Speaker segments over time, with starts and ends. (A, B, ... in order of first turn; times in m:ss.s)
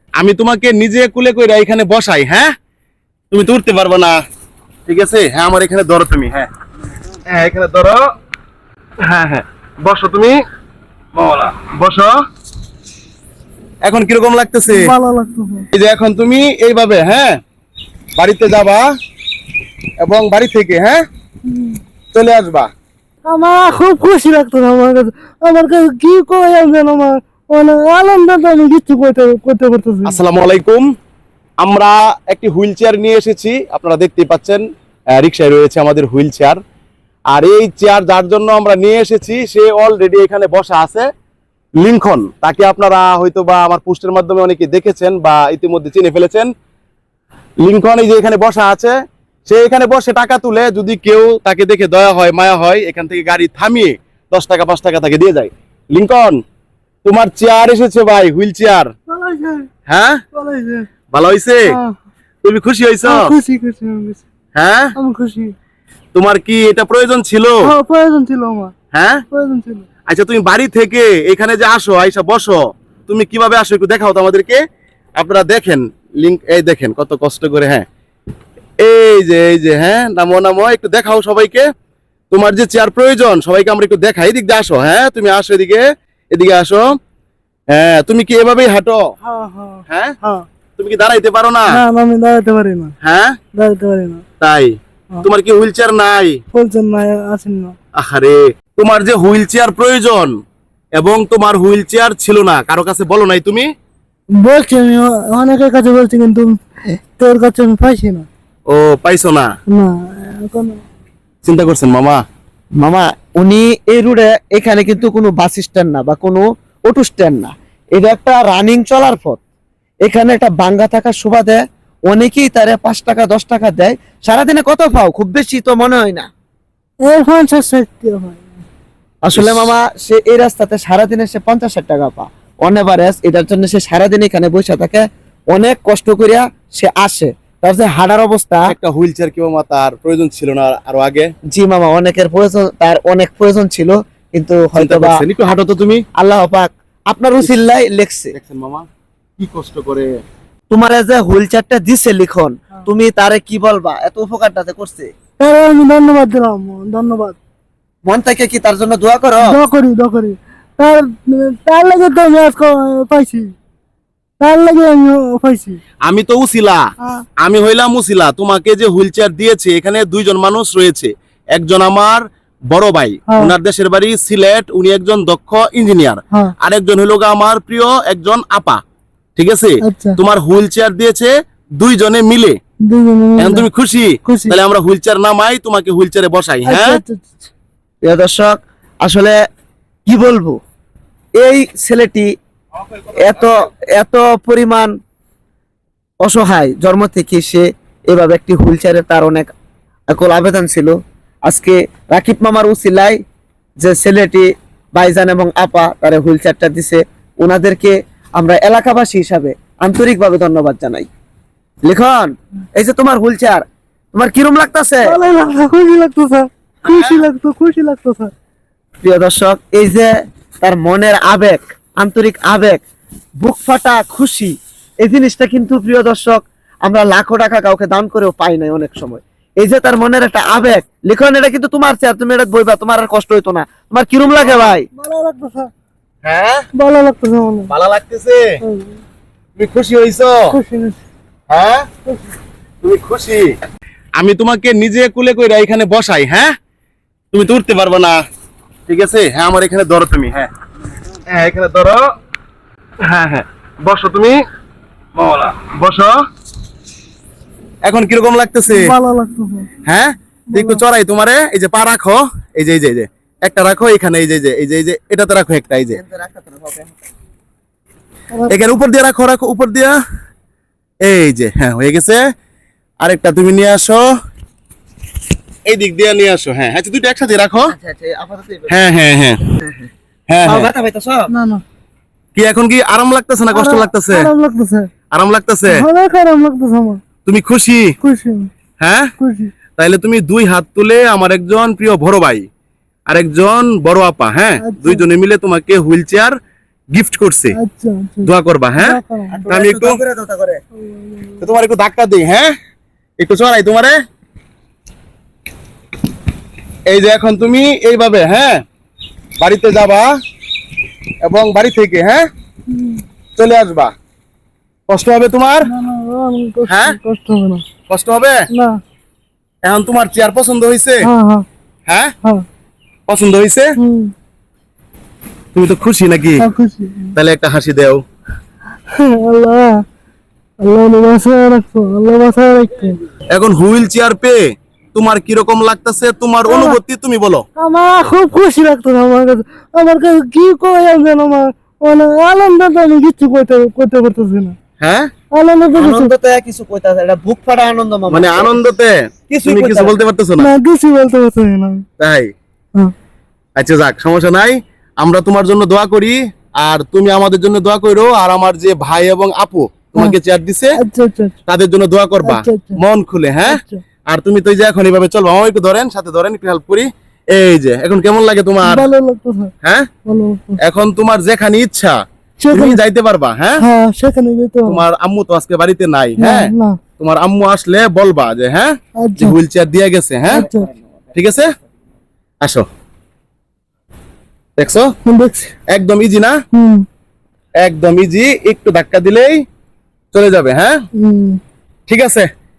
0:00.2-0:02.5 A
0:03.3-0:04.2 A
0:04.8-0:06.5 A
0:07.3-0:08.0 A
0:09.0-0:10.4 A
0:11.1-0:12.1 A
0:13.8-0:14.9 A
0:14.7-0:15.7 B
0:15.7-0:17.4 A
0:18.2-0:18.8 A
0:20.0-0:21.0 A
0:21.5-0:21.8 B
0:22.1-0:22.7 A
0:23.2-0:30.2 B
0:30.0-0:30.9 A
0:31.6-0:34.6 A
0:35.1-0:36.6 A
0:37.3-0:41.1 A
0:41.8-0:46.5 A
0:47.6-0:49.0 A
0:49.5-0:56.4 A
0:57.0-0:58.9 A
0:59.1-0:59.7 B
0:59.9-1:00.2 A
1:00.3-1:00.9 B
1:01.1-1:01.7 A
1:01.7-1:02.0 B
1:02.4-1:03.2 A
1:03.0-1:04.2 B
1:04.6-1:04.9 A
1:04.9-1:05.5 B
1:06.1-1:07.7 A
1:07.6-1:08.7 B
1:08.9-1:09.2 A
1:09.3-1:09.8 B
1:10.1-1:14.6 A
1:15.2-1:17.8 A
1:18.8-1:21.7 A
1:22.3-1:27.0 A
1:27.7-1:29.1 A
1:29.2-1:30.4 B
1:29.9-1:30.2 A
1:30.8-1:31.8 A
1:31.7-1:32.9 B
1:33.0-1:33.4 A
1:33.5-1:34.2 B
1:34.4-1:36.4 A
1:36.5-1:37.8 B
1:37.9-1:40.4 A
1:40.9-1:43.7 A
1:44.4-1:46.6 B
1:47.2-1:48.3 B
1:48.7-1:49.5 A
1:49.7-1:50.8 B
1:51.4-1:52.2 A
1:52.8-1:59.4 C
2:00.0-2:06.3 C
2:07.0-2:08.4 B
2:09.2-2:18.7 C
2:09.3-2:09.7 A
2:18.7-2:21.3 A
2:21.5-2:25.2 C
2:24.8-2:26.0 A
2:26.2-2:28.3 C
2:28.3-2:28.9 A
2:29.4-2:30.2 A
2:30.7-2:35.1 C
2:35.4-2:37.4 B
2:38.0-2:39.6 C
2:39.4-2:43.5 B
2:44.4-2:45.8 B
2:46.0-2:46.8 A
2:47.4-2:58.8 A
2:53.3-2:53.5 B
2:59.4-3:02.6 A
2:59.8-3:00.2 B
3:02.8-3:03.7 B
3:03.4-3:07.0 A
3:04.2-3:04.6 B
3:06.6-3:07.5 B
3:08.0-3:09.4 C
3:10.0-3:10.6 C
3:11.4-3:12.3 C
3:13.1-3:14.9 C
3:16.2-3:19.5 C
3:20.1-3:23.2 C
3:23.8-3:31.1 C
3:31.8-3:35.1 C
3:35.0-3:38.3 B
3:39.0-3:42.8 C
3:43.4-3:54.9 C
3:54.9-3:55.7 B
3:56.2-3:56.7 A
3:56.7-3:57.7 B
3:57.7-3:58.5 A
3:58.6-3:59.0 B
3:59.6-4:00.5 A
4:00.5-4:01.0 B
4:01.5-4:01.9 A
4:02.8-4:03.5 A
4:04.2-4:06.5 A
4:07.3-4:08.2 A
4:08.9-4:10.5 A
4:11.3-4:12.0 A
4:13.0-4:14.4 A
4:15.1-4:16.2 A
4:17.8-4:18.9 A
4:18.7-4:19.7 B
4:19.8-4:26.0 A
4:20.5-4:20.8 B
4:25.9-4:27.0 C
4:28.5-4:30.0 A
4:31.0-4:32.3 A
4:33.0-4:34.0 A
4:35.7-4:37.7 A
4:37.7-4:38.8 C
4:38.7-4:39.4 A
4:39.6-4:39.9 C
4:40.3-4:40.7 A
4:40.4-4:41.3 C
4:41.3-4:41.6 B
4:42.3-4:44.3 A
4:43.5-4:44.9 B
4:45.1-4:45.8 A
4:45.7-4:47.0 B
4:47.2-4:47.9 A
4:48.0-4:48.5 B
4:48.8-4:49.1 A
4:49.2-4:49.5 B
4:49.8-4:52.4 A
4:53.1-4:56.4 A
4:54.6-4:55.0 B
4:56.9-4:57.6 A
4:57.5-4:59.4 B
4:58.2-5:00.0 A
4:59.3-5:00.6 C
5:00.8-5:01.5 B
5:01.4-5:02.5 A
5:03.2-5:04.0 A
5:06.9-5:08.6 A
5:09.4-5:10.1 A
5:11.2-5:12.3 A
5:12.7-5:13.0 B
5:13.4-5:13.9 A
5:14.9-5:15.7 A
5:15.6-5:17.6 B
5:16.6-5:17.0 A
5:17.9-5:18.4 A
5:18.5-5:18.8 B
5:19.6-5:21.1 A
5:21.0-5:21.4 B
5:21.9-5:22.1 A
5:23.1-5:23.8 A
5:23.8-5:24.1 B
5:25.5-5:26.4 A
5:26.4-5:27.1 B
5:27.1-5:28.0 A
5:28.9-5:29.8 B
5:30.6-5:33.0 B
5:33.3-5:34.4 A
5:34.9-5:37.4 A
5:36.4-5:36.8 B
5:37.6-5:44.6 B
5:44.8-5:45.1 A
5:45.3-5:46.1 B
5:45.8-5:48.7 C
5:48.1-5:50.5 A
5:49.3-5:50.0 C
5:50.4-5:51.8 B
5:52.0-5:52.3 A
5:53.6-6:00.8 A
6:00.8-6:01.4 B
6:01.5-6:08.9 A
6:02.2-6:02.8 B
6:03.4-6:03.8 B
6:08.6-6:09.5 B
6:09.6-6:09.9 A
6:10.0-6:10.6 B
6:10.6-6:12.0 A
6:12.4-6:12.8 B
6:12.5-6:13.6 A
6:13.6-6:14.8 B
6:14.6-6:20.5 A
6:16.2-6:16.8 B
6:19.0-6:19.4 B
6:20.3-6:20.7 B
6:21.1-6:21.5 A
6:24.6-6:24.9 A
6:25.0-6:25.5 B
6:25.7-6:26.4 A
6:26.5-6:26.8 B
6:27.6-6:29.4 A
6:30.1-6:30.8 A
6:30.9-6:31.4 B
6:31.9-6:32.3 A